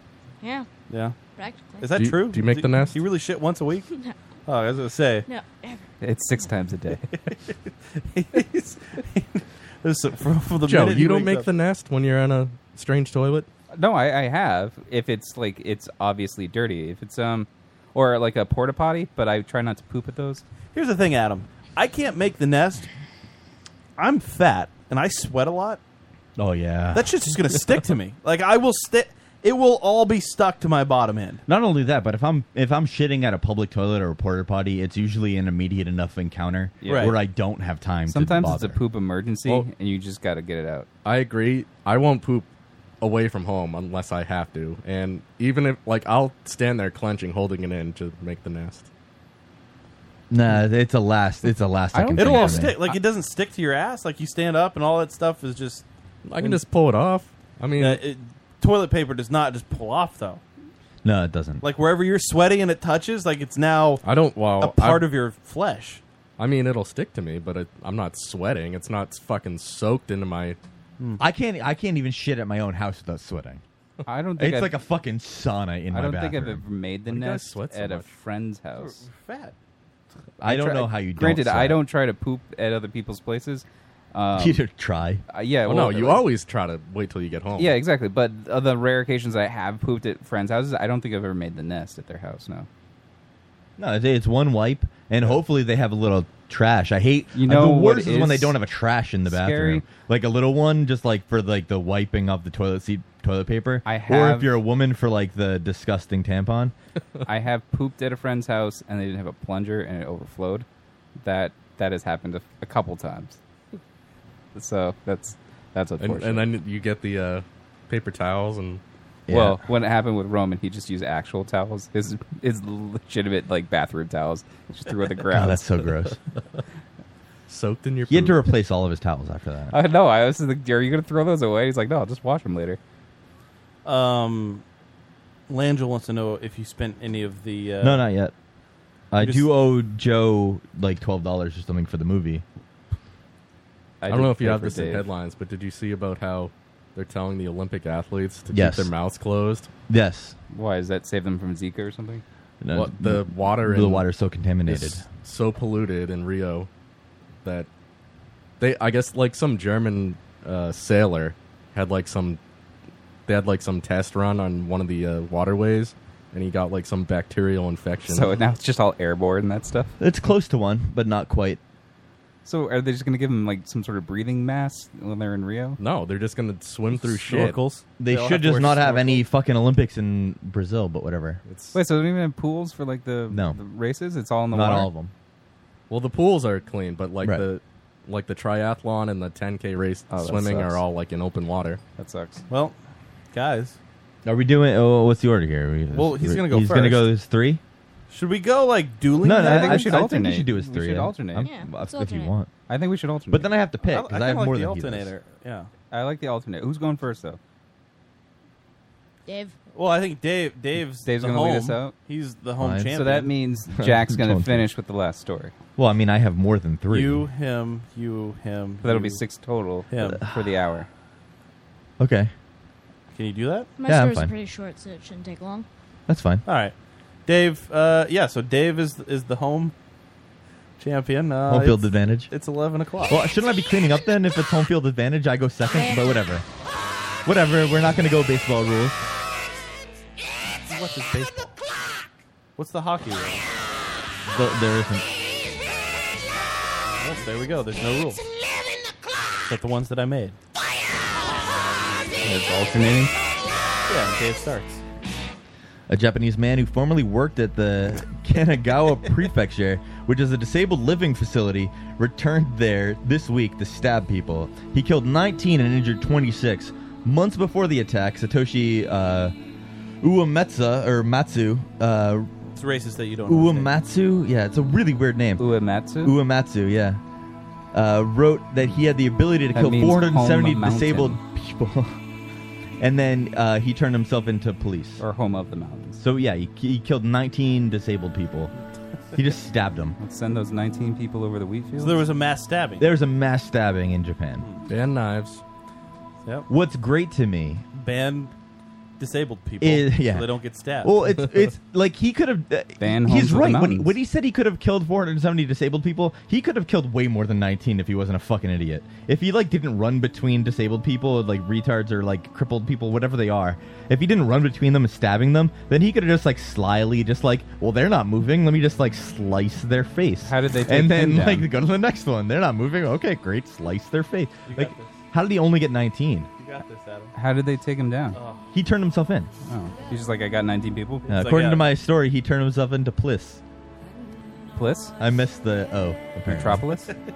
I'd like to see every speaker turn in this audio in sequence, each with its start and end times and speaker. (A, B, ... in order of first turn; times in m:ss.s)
0:00.4-0:00.7 A
0:00.9-0:01.2 B
0:01.4-0:01.9 A
0:01.8-0:03.8 B
0:02.0-0:03.0 C
0:03.9-0:04.1 A
0:04.4-0:05.2 B
0:05.3-0:05.9 A
0:06.0-0:07.1 D
0:07.3-0:11.5 B
0:10.6-0:13.5 C
0:13.7-0:20.4 D
0:20.7-0:22.9 B
0:24.0-0:25.8 B
0:26.4-0:27.1 E
0:26.9-0:31.4 B
0:31.4-0:38.8 E
0:36.8-0:37.1 D
0:36.8-0:37.2 B
0:38.1-0:40.9 D
0:41.0-0:42.5 C
0:43.0-0:48.9 C
0:50.3-0:52.8 E
0:51.9-0:53.0 D
0:52.2-0:55.8 B
0:56.2-0:58.0 C
0:57.8-1:00.4 B
1:01.0-1:01.6 E
1:01.6-1:04.0 B
1:04.0-1:05.1 C
1:04.6-1:06.0 B
1:06.4-1:10.6 C
1:11.2-1:13.6 E
1:14.0-1:14.8 D
1:14.4-1:16.6 E
1:15.9-1:19.0 D
1:17.1-1:18.1 C
1:18.8-1:19.6 B
1:20.4-1:21.8 E
1:20.4-1:24.6 D
1:24.3-1:25.2 E
1:25.3-1:26.2 D
1:25.6-1:27.8 C
1:27.6-1:32.7 D
1:33.8-1:46.7 E
1:37.3-1:38.6 D
1:39.2-1:39.8 D
1:43.8-1:44.5 D
1:47.2-1:50.6 D
1:51.2-1:53.4 D
1:54.5-1:56.5 D
1:56.0-1:58.8 C
1:59.3-1:59.6 E
1:59.3-2:05.6 D
2:05.3-2:06.2 E
2:07.5-2:08.4 C
2:08.1-2:09.7 E
2:09.7-2:12.8 D
2:13.8-2:14.6 B
2:15.5-2:18.0 B
2:17.8-2:18.3 E
2:19.1-2:22.4 E
2:19.2-2:19.5 B
2:24.0-2:25.0 D
2:24.1-2:29.7 C
2:28.5-2:28.9 E
2:29.9-2:30.4 E
2:30.5-2:32.2 D
2:32.6-2:35.0 E
2:32.7-2:34.1 C
2:34.6-2:36.7 C
2:38.6-2:42.4 C
2:43.3-2:48.3 C
2:48.1-2:50.0 D
2:50.0-2:51.6 E
2:52.4-2:55.8 D
2:55.8-2:57.6 C
2:56.9-2:59.2 B
2:58.0-3:01.4 E
3:01.4-3:01.8 C
3:01.7-3:04.9 D
3:03.3-3:03.6 E
3:04.5-3:05.1 E
3:05.9-3:11.8 C
3:10.1-3:10.8 D
3:12.0-3:12.4 D
3:12.5-3:12.8 B
3:13.3-3:13.8 B
3:14.2-3:17.6 E
3:15.9-3:17.1 B
3:18.1-3:20.0 B
3:19.2-3:22.5 E
3:19.2-3:21.5 D
3:21.4-3:22.3 A
3:22.7-3:23.5 D
3:23.3-3:25.1 E
3:23.8-3:25.7 B
3:25.9-3:27.4 D
3:29.3-3:29.6 A
3:29.7-3:33.3 B
3:31.0-3:31.9 D
3:32.6-3:32.9 E
3:32.9-3:35.5 D
3:33.8-3:34.7 E
3:35.8-3:37.2 E
3:36.9-3:39.2 B
3:38.8-3:40.9 D
3:39.9-3:40.2 B
3:42.0-3:42.3 E
3:43.1-3:43.7 B
3:43.8-3:45.7 A
3:43.8-3:44.3 E
3:46.1-3:46.4 E
3:46.4-3:46.7 B
3:47.2-3:49.7 B
3:50.8-3:53.2 B
3:51.5-3:52.3 E
3:53.1-3:56.4 E
3:55.7-3:56.2 A
3:57.2-3:59.0 E
4:00.6-4:01.6 B
4:02.6-4:03.4 B
4:04.3-4:05.0 E
4:07.0-4:08.2 B
4:09.4-4:10.4 B
4:12.2-4:13.1 D
4:13.9-4:14.8 B
4:15.9-4:29.3 E
4:30.0-4:32.3 E
4:32.5-4:33.7 B
4:33.3-4:35.4 E
4:35.4-4:36.1 D
4:36.0-4:37.0 E
4:37.7-4:42.0 E
4:39.5-4:41.2 D
4:42.8-4:45.0 E
4:45.0-4:46.0 D
4:46.0-4:48.5 E
4:49.1-4:50.0 E
4:50.0-4:52.0 D
4:51.8-4:52.9 B
4:52.8-4:54.5 E
4:54.7-4:55.4 C
4:56.5-4:57.6 E
4:57.7-4:58.3 B
4:59.0-5:00.9 B
4:59.6-5:00.3 E
5:00.8-5:26.3 E
5:02.8-5:03.9 D
5:20.2-5:21.5 D
5:24.5-5:25.0 B
5:26.4-5:27.1 B
5:27.1-5:28.2 D
5:28.1-5:28.5 B
5:28.5-5:29.3 E
5:29.4-5:31.1 D
5:31.1-5:31.7 B
5:31.1-5:33.4 E
5:34.5-5:34.9 D
5:35.0-5:36.6 E
5:36.2-5:36.9 D